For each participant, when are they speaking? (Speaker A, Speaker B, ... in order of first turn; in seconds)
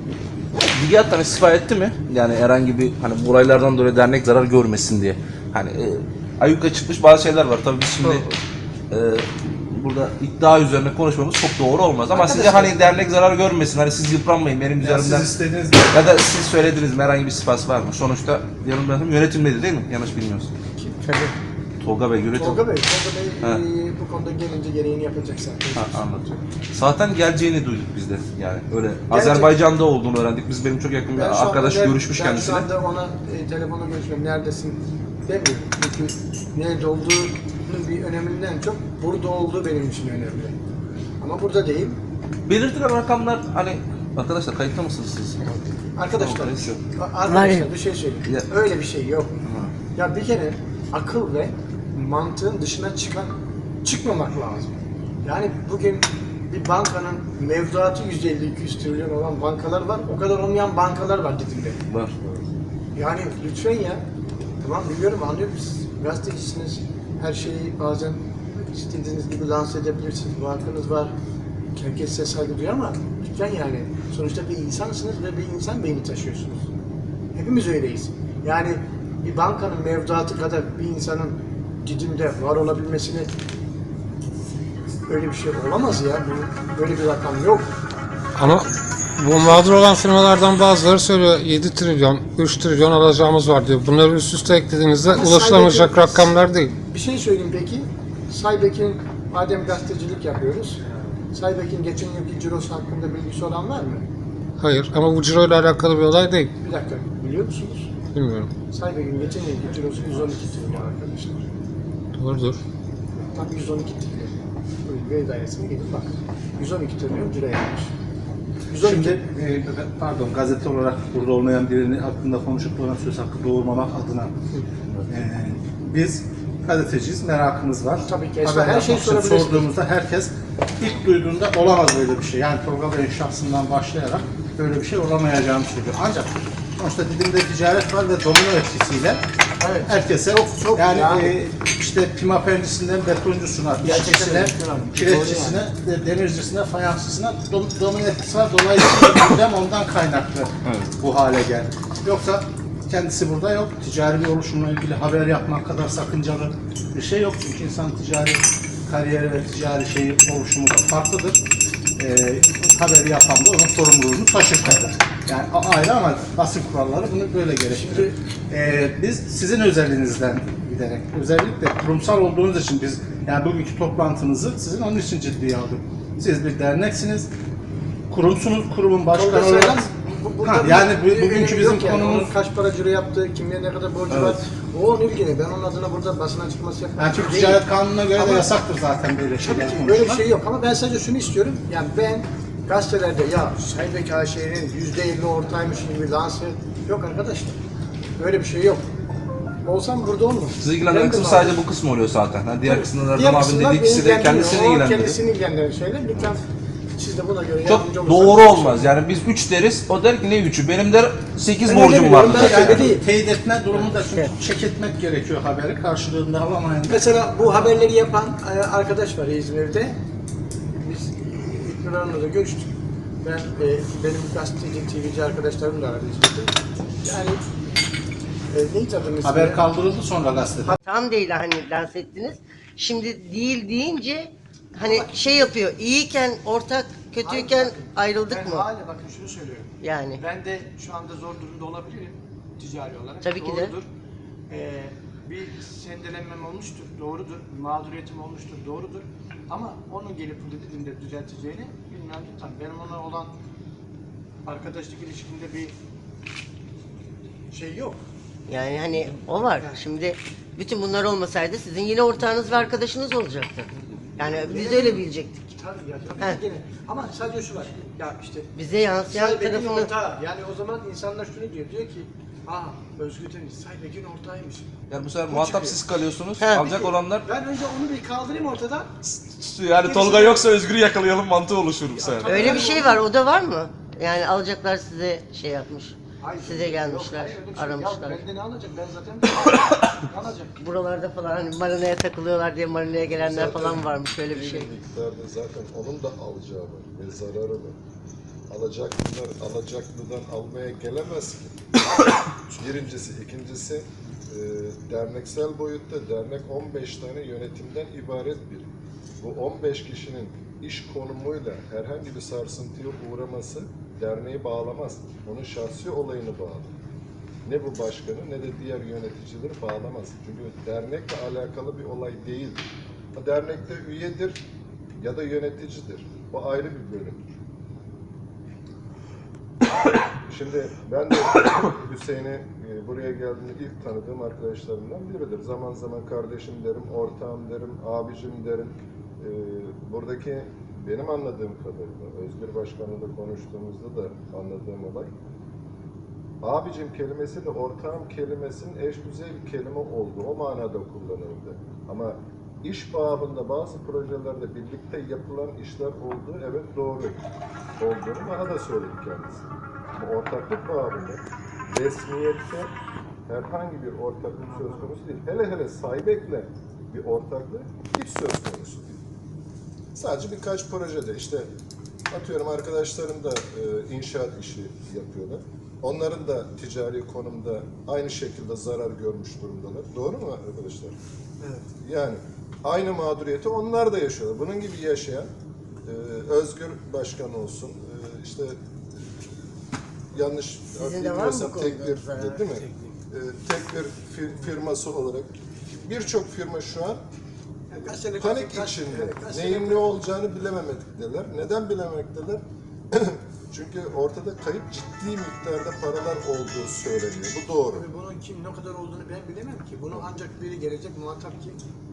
Speaker A: 0.7-8.3, 8.9-15.3, 15.9-20.5, 21.8-22.6, 25.8-32.6, 42.5-45.4, 46.1-46.8, 49.4-49.7, 61.9-62.4, 150.6-150.9, 184.1-184.4, 200.6-205.2, 207.7-212.9, 274.9-277.2, 279.0-282.7
Speaker B: 12.1-12.9, 20.8-21.4, 22.3-26.4, 29.1-29.6, 31.1-40.5, 41.2-42.0, 45.9-49.4, 49.9-61.8, 62.9-64.0, 64.6-71.1, 71.8-76.7, 77.3-83.3, 85.1-87.7, 95.1-100.8, 101.3-104.0, 106.6-107.9, 108.7-111.4, 113.1-117.9, 118.7-119.2, 128.0-129.7, 139.6-141.4, 143.8-145.6, 167.7-168.2, 179.1-188.5, 189.4-197.6, 198.2-198.8, 199.6-201.6, 202.6-206.4, 206.9-208.8, 211.6-213.0, 216.9-220.0, 220.8-222.7, 223.2-227.4, 228.5-229.7, 234.8-235.5, 237.2-243.8, 244.5-253.3, 254.4-255.7, 257.5-258.0, 264.3-268.5, 269.1-274.7, 275.3-275.8, 276.6-278.9, 279.8-280.5, 281.9-283.0, 286.2-290.6, 397.7-399.9, 407.7-411.6
Speaker C: 14.8-15.9, 118.8-124.3, 125.1-139.2, 139.8-161.4, 162.0-177.3, 178.1-179.8, 180.4-182.3, 187.0-190.2, 212.3-216.9, 229.2-230.8
Speaker D: 47.3-47.7, 230.7-238.6, 239.8-240.2, 243.2-243.7, 258.5-265.4, 268.5-269.9, 276.4-276.6, 282.2-288.2, 290.6-294.7, 390.8-392.4
Speaker E: 88.4-96.7, 104.6-106.5, 108.1-108.5, 112.2-112.6
Speaker F: 293.2-297.8, 298.5-301.6, 302.5-308.7, 309.2-316.7, 317.4-324.4, 325.0-327.3, 330.3-345.1, 346.4-357.2, 357.8-362.7, 363.3-369.0, 369.9-371.5, 372.1-380.9, 381.8-385.3, 385.9-389.1, 390.1-397.0, 398.2-407.9